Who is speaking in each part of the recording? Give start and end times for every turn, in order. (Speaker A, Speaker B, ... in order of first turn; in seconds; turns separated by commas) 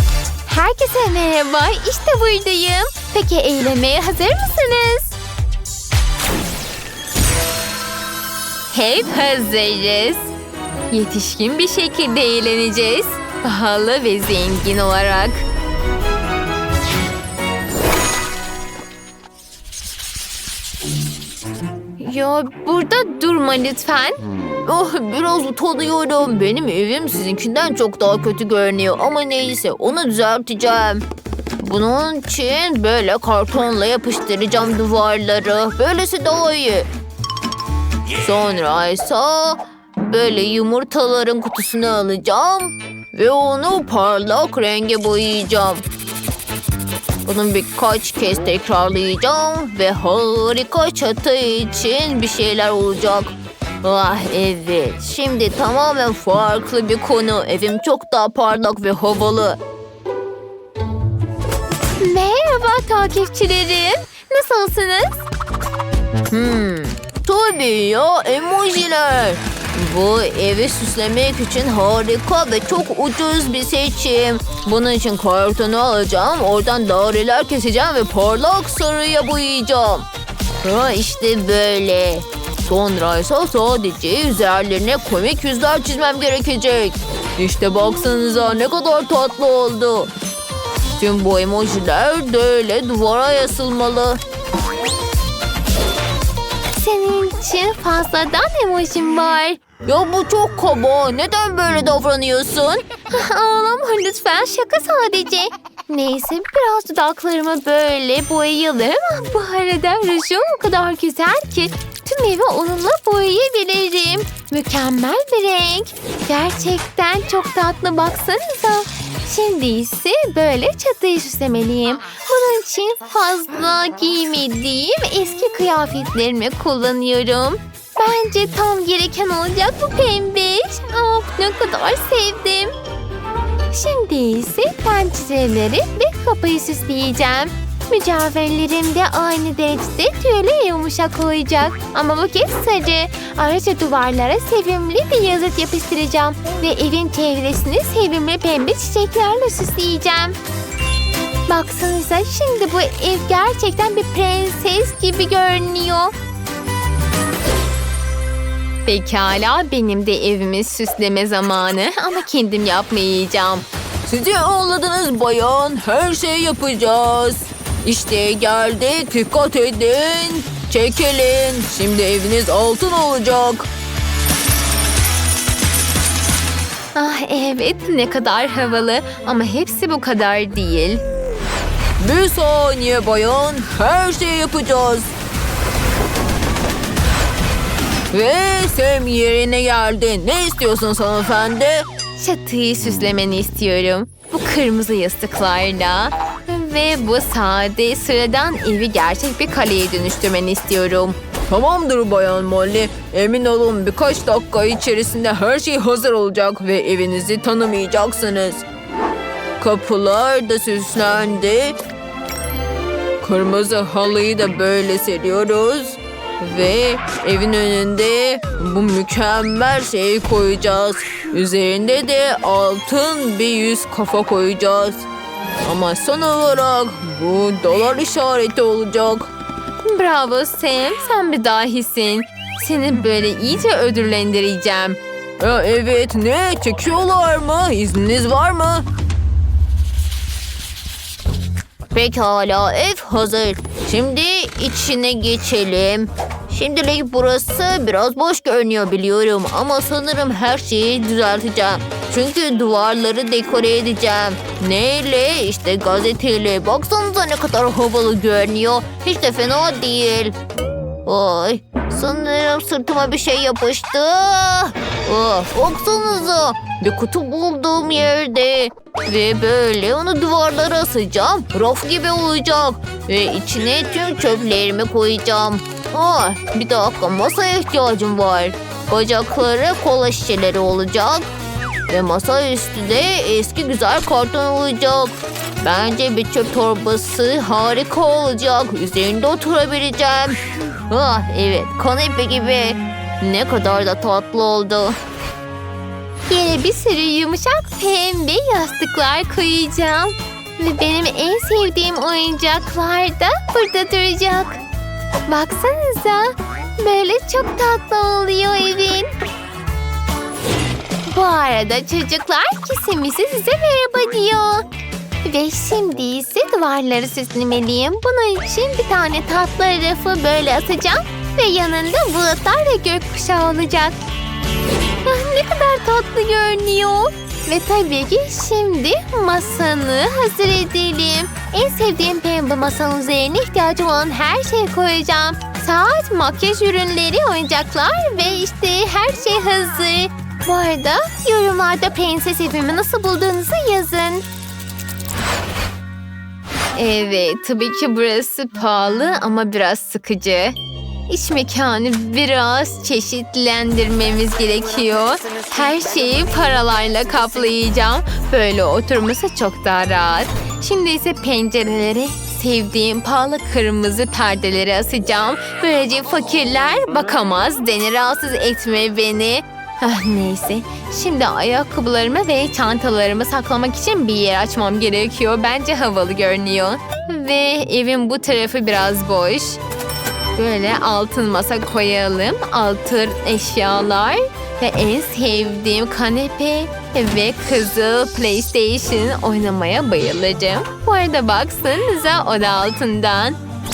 Speaker A: 0.5-5.2, Speaker A: 8.7-10.3, Speaker A: 10.9-15.3, Speaker B: 14.4-15.3, Speaker A: 22.0-24.2, Speaker B: 22.8-24.1, Speaker B: 24.6-31.0, Speaker B: 31.6-36.9, Speaker B: 38.2-45.8, Speaker B: 47.2-59.6, Speaker A: 62.0-65.3, Speaker B: 66.3-80.1, Speaker B: 80.6-90.1, Speaker B: 91.0-94.2, Speaker A: 96.8-99.6, Speaker B: 99.7-103.0, Speaker A: 103.1-132.7, Speaker B: 105.9-107.0, Speaker A: 133.7-150.4, Speaker A: 151.5-156.1, Speaker A: 158.9-163.6, Speaker B: 158.9-160.1, Speaker B: 162.6-173.7, Speaker A: 177.0-181.0, Speaker B: 177.2-178.1, Speaker B: 182.0-185.1, Speaker B: 188.1-191.9, Speaker A: 192.2-201.1, Speaker B: 193.1-194.3, Speaker B: 199.3-199.8, Speaker B: 200.3-208.7, Speaker B: 209.6-211.8, Speaker B: 213.2-225.1, Speaker B: 225.6-229.3, Speaker A: 229.9-235.0, Speaker B: 229.9-234.8, Speaker B: 235.4-238.8, Speaker B: 241.9-260.4, Speaker B: 261.1-281.3, Speaker B: 281.9-295.0, Speaker A: 296.3-304.6, Speaker A: 305.3-309.1, Speaker A: 311.1-314.6, Speaker A: 315.2-324.0, Speaker A: 325.1-344.3, Speaker A: 346.8-350.6, Speaker A: 351.1-379.6, Speaker A: 380.4-393.4